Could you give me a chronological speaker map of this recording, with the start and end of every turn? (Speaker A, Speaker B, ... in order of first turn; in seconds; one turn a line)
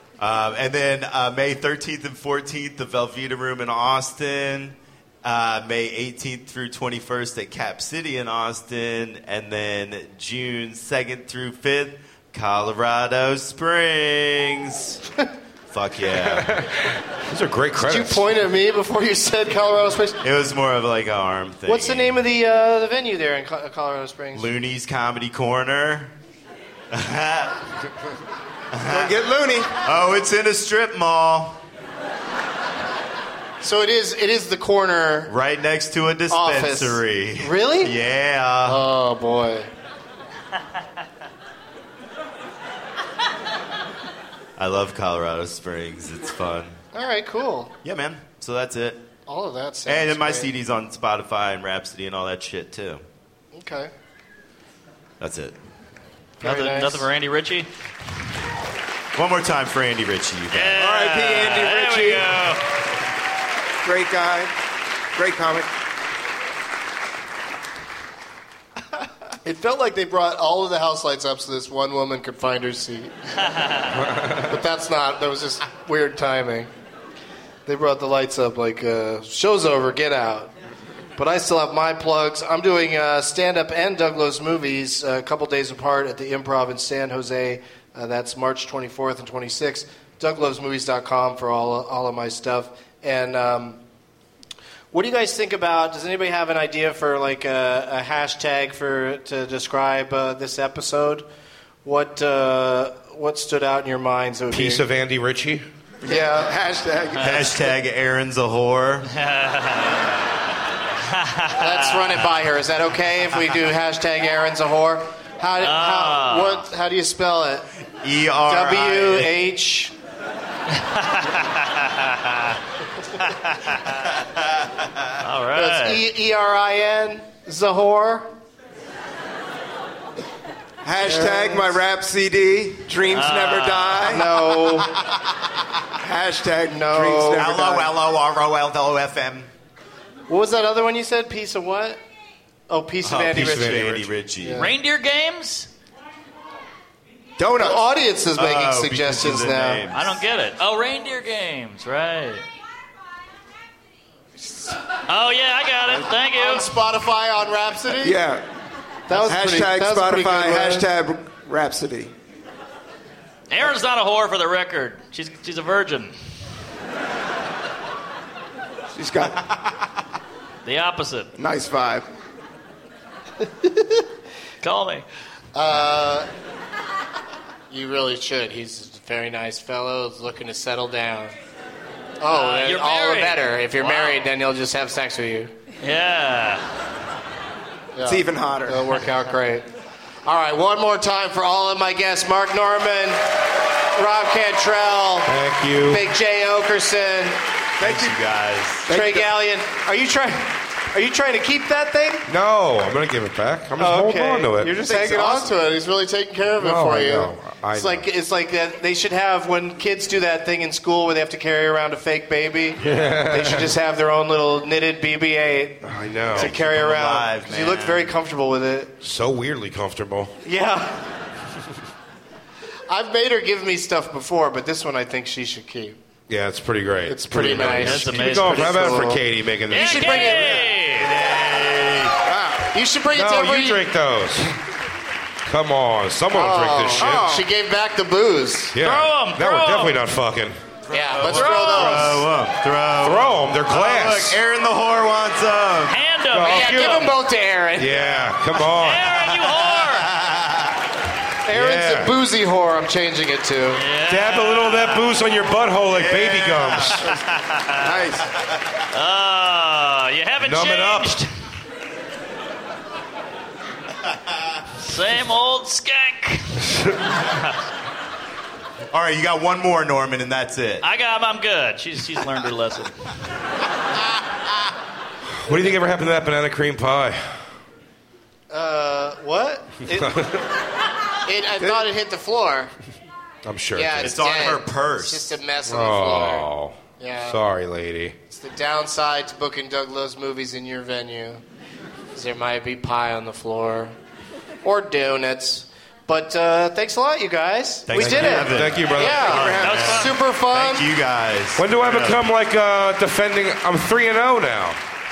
Speaker A: 0.2-15.0
Speaker A: 15.7-16.6
Speaker B: 16.1-18.2
Speaker C: 17.9-20.2
Speaker A: 20.2-22.2
Speaker C: 21.7-24.5
Speaker A: 24.3-26.1
Speaker A: 26.9-27.6
Speaker A: 28.7-29.1
Speaker D: 28.9-29.8
Speaker A: 29.8-31.6
Speaker C: 33.6-35.3
Speaker A: 35.3-38.8
Speaker C: 36.3-37.9
Speaker C: 38.6-39.7
Speaker A: 44.6-46.8
Speaker C: 46.9-47.7
Speaker A: 47.8-49.0
Speaker C: 49.2-50.5
Speaker A: 49.9-53.0
Speaker C: 53.5-53.9
Speaker A: 55.2-55.5
Speaker C: 56.4-57.1
Speaker E: 56.4-57.7
Speaker A: 59.1-60.8
Speaker E: 60.5-62.6
Speaker D: 60.8-62.5
Speaker D: 63.8-64.5
Speaker D: 65.2-65.7
Speaker C: 69.4-73.1
Speaker E: 73.4-74.0
Speaker C: 74.4-76.7
Speaker C: 77.7-80.5
Speaker C: 81.2-93.8
Speaker C: 94.9-101.2
Speaker C: 101.8-104.8
Speaker B: 104.5-105.7
Speaker D: 106.0-107.7
Speaker C: 106.1-106.5
Speaker A: 107.2-109.1
Speaker E: 109.1-110.2
Speaker E: 111.0-112.1
Speaker C: 111.6-117.7
Speaker E: 115.6-116.6
Speaker A: 118.0-119.3
Speaker C: 118.5-119.9
Speaker E: 120.7-122.6
Speaker E: 123.2-124.0
Speaker E: 125.2-126.0
Speaker C: 125.5-128.3
Speaker D: 130.8-134.3
Speaker C: 131.0-131.8
Speaker E: 133.1-134.2
Speaker C: 134.1-134.9
Speaker D: 136.0-137.9
Speaker C: 136.7-137.5
Speaker A: 137.3-139.5
Speaker C: 140.3-142.0
Speaker C: 142.7-144.7
Speaker A: 143.0-144.7
Speaker B: 143.3-144.0
Speaker E: 144.6-145.7
Speaker D: 147.4-147.8
Speaker C: 147.6-149.8
Speaker A: 148.3-150.2
Speaker E: 149.9-152.4
Speaker E: 155.1-156.7
Speaker C: 156.3-158.2
Speaker D: 158.0-158.4
Speaker C: 159.1-160.9
Speaker D: 159.1-162.1
Speaker E: 163.5-166.2
Speaker D: 168.9-169.4
Speaker E: 170.6-171.3
Speaker D: 171.4-172.1
Speaker C: 173.6-173.9
Speaker E: 174.6-175.1
Speaker C: 175.5-176.3
Speaker C: 177.7-181.3
Speaker C: 182.2-185.5
Speaker E: 182.3-184.2
Speaker E: 185.8-186.6
Speaker C: 187.9-189.7
Speaker D: 188.0-188.9
Speaker C: 190.2-193.2
Speaker C: 193.9-197.4
Speaker B: 195.3-196.1
Speaker A: 197.8-198.9
Speaker D: 197.8-198.1
Speaker D: 198.9-199.3
Speaker C: 198.9-202.3
Speaker B: 202.3-204.9
Speaker C: 203.8-218.9
Speaker D: 204.8-205.5
Speaker B: 206.6-208.0
Speaker B: 212.8-213.7
Speaker B: 215.8-216.5
Speaker A: 216.3-218.1
Speaker B: 219.0-220.3
Speaker C: 220.4-221.0
Speaker C: 222.9-226.0
Speaker B: 226.3-230.6
Speaker C: 227.1-230.7
Speaker E: 227.4-229.1
Speaker E: 229.7-231.1
Speaker A: 230.6-232.2
Speaker D: 232.2-232.7
Speaker C: 232.7-233.8
Speaker B: 233.1-234.5
Speaker B: 235.5-237.4
Speaker C: 236.3-238.8
Speaker D: 237.0-237.4
Speaker B: 238.7-240.6
Speaker E: 238.8-240.0
Speaker C: 240.9-242.3
Speaker A: 240.9-246.0
Speaker E: 241.3-242.0
Speaker B: 243.0-244.4
Speaker E: 245.9-247.1
Speaker B: 246.3-247.1
Speaker C: 246.4-247.9
Speaker B: 247.8-249.3
Speaker E: 248.7-250.1
Speaker A: 249.8-250.8
Speaker C: 251.4-253.8
Speaker B: 251.5-252.1
Speaker E: 253.7-255.2
Speaker B: 254.1-257.1
Speaker A: 255.9-257.0
Speaker E: 257.1-258.0
Speaker D: 257.8-258.2
Speaker E: 258.9-261.3
Speaker B: 260.4-261.2
Speaker E: 264.8-266.7
Speaker E: 267.3-267.6
Speaker A: 268.9-270.8
Speaker E: 270.8-273.1
Speaker B: 275.4-277.4
Speaker C: 278.5-280.2
Speaker B: 279.9-280.4
Speaker C: 281.2-282.7
Speaker B: 283.4-284.2
Speaker C: 283.7-287.4
Speaker A: 284.0-285.3
Speaker B: 285.6-288.1
Speaker C: 288.3-291.4
Speaker C: 292.1-293.9
Speaker C: 294.6-300.9
Speaker A: 297.9-299.0
Speaker B: 297.9-299.4
Speaker E: 299.0-300.1
Speaker D: 299.2-300.0
Speaker A: 299.6-302.2
Speaker B: 301.6-304.8